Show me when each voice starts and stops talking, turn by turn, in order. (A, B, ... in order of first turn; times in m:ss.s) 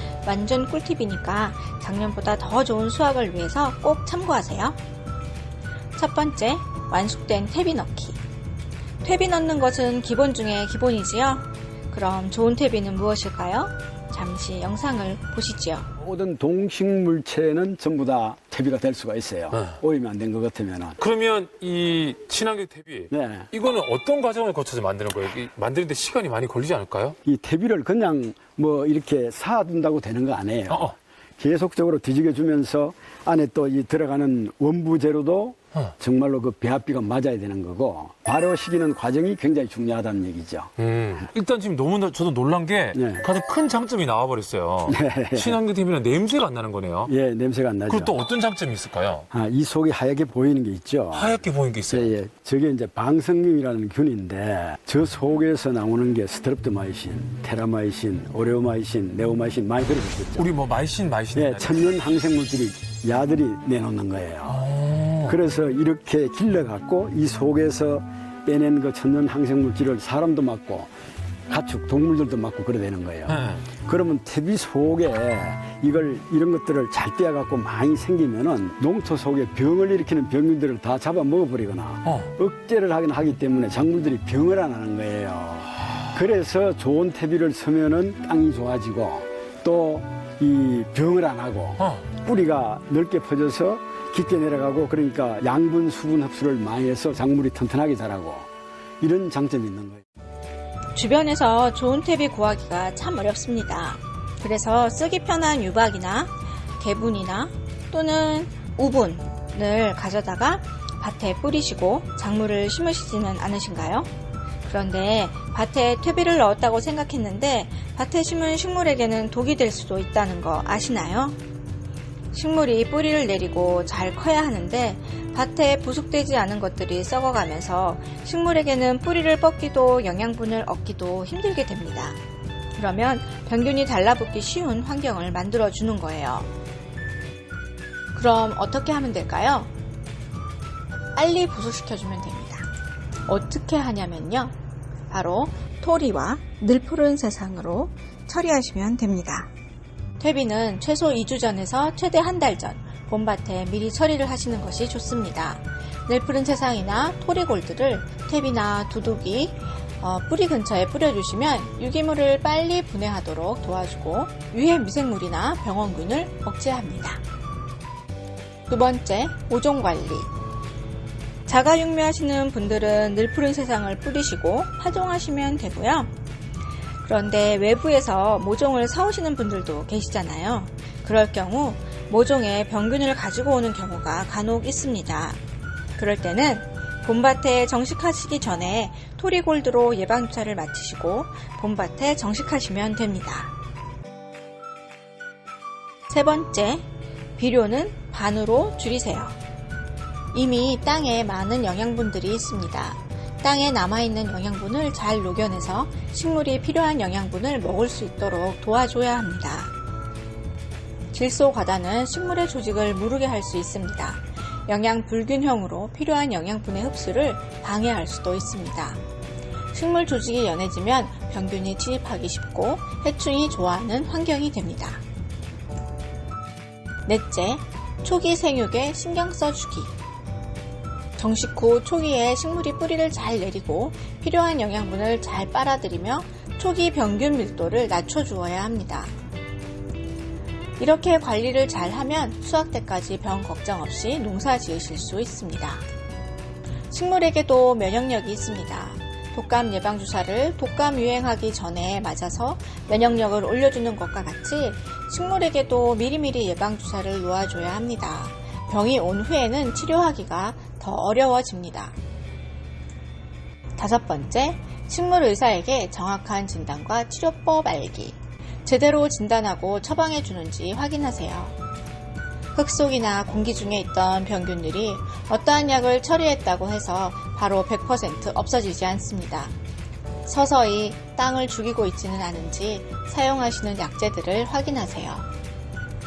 0:00.2-0:04.8 A
0:06.0-0:08.2 A
0:09.0-0:15.9 A
0:16.0-0:21.0 B
0:21.0-0:27.2 C
0:23.1-0:23.5 B
0:27.2-0:40.7 B
0:40.8-0:47.1 C
0:42.9-0:43.3 B
0:44.9-0:45.6 B
0:47.1-0:48.2 B
0:47.9-0:49.3 C
0:49.3-0:51.4 B
0:51.1-0:52.1 C
0:51.9-1:00.5 B
1:00.4-1:01.9 C
1:01.4-1:04.7 B
1:04.6-1:05.4 C
1:05.2-1:10.9 B
1:11.5-1:38.5 B
1:13.3-1:13.6 C
1:39.0-1:40.0 B
1:40.9-1:54.1 A
1:54.6-2:01.4 A
2:02.3-2:12.2 A
2:12.8-2:16.5 A
2:18.1-2:19.7 A
2:21.2-2:22.7 A
2:23.3-2:24.5 A
2:25.1-2:29.5 A
2:30.2-2:47.2 A
2:48.7-2:50.3 A
2:51.4-2:56.1 A
2:57.0-3:05.4 A
3:06.0-3:13.5 A
3:16.1-3:19.4 A
3:20.3-3:29.7 A
3:31.1-3:39.0 A
3:39.7-3:45.0 A
3:47.0-3:49.9 A
3:51.2-3:59.1 A
4:00.8-4:05.8 A
4:06.9-4:22.0 A
4:23.8-4:31.6 A
4:32.5-4:39.5 A
4:40.2-4:45.3 A